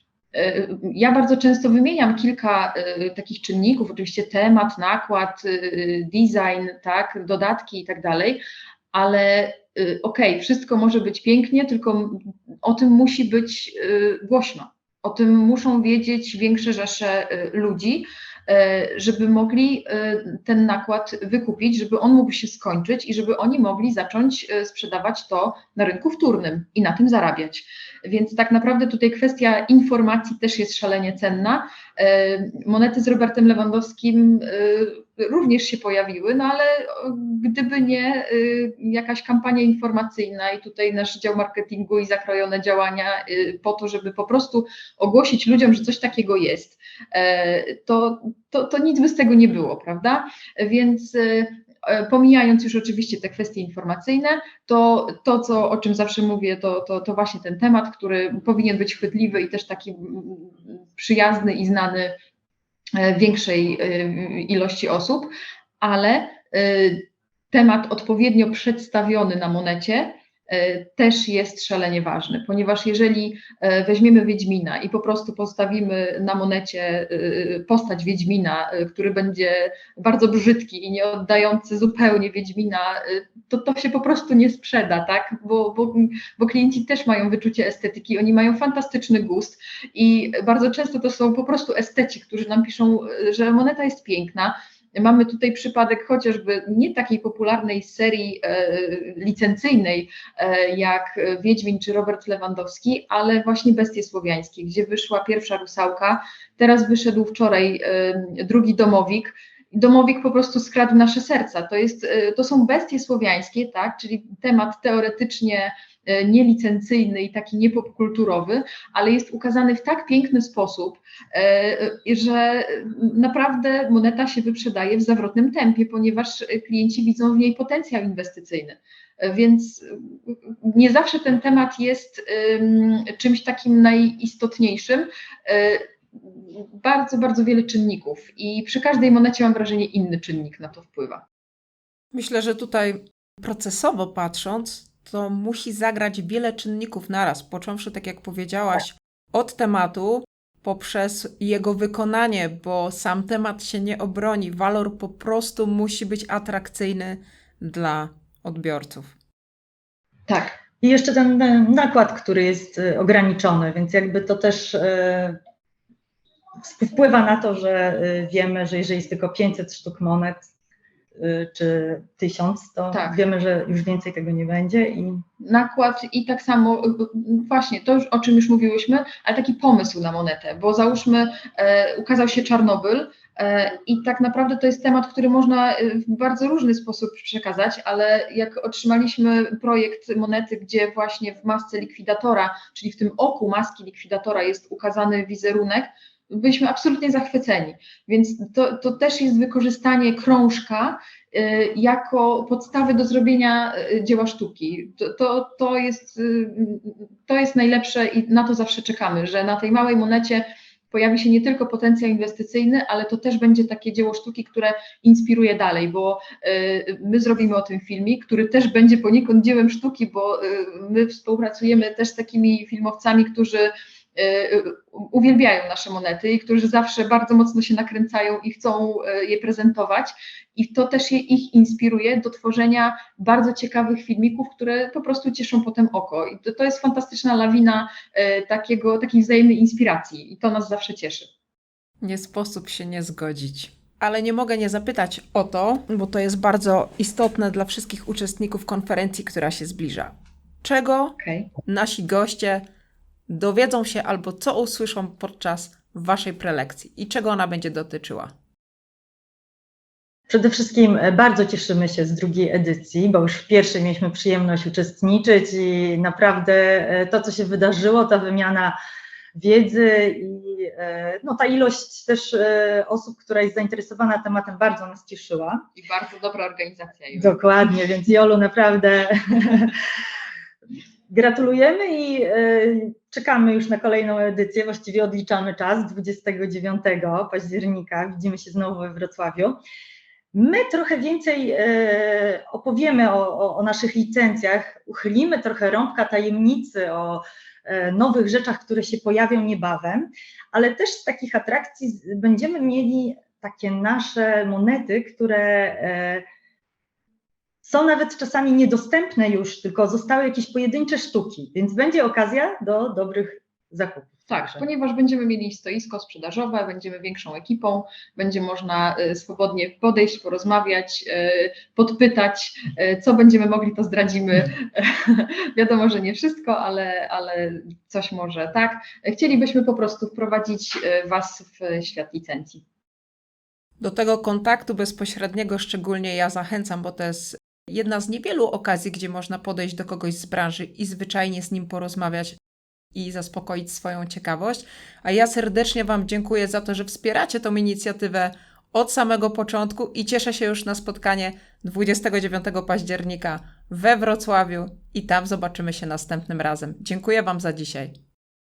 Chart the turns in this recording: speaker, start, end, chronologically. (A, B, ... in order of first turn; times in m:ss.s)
0:00.3-1:02.1 A
1:03.0-2:21.2 A
2:22.1-2:39.1 B
2:40.3-2:40.5 A
2:40.8-2:45.4 C
2:46.6-2:50.4 C
2:51.2-2:55.2 C
2:52.9-2:53.2 A
2:55.4-4:01.3 A
4:02.0-4:11.1 B
4:11.2-4:11.5 A
4:11.6-4:12.6 B
4:13.3-4:18.3 B
4:20.3-4:28.7 C
4:29.3-4:35.6 C
4:35.8-4:37.4 A
4:37.2-4:39.7 C
4:41.1-4:49.6 C
4:50.3-5:06.2 C
5:07.6-5:14.6 C
5:14.3-5:32.6 A
5:33.8-5:42.4 B
5:42.9-5:57.9 B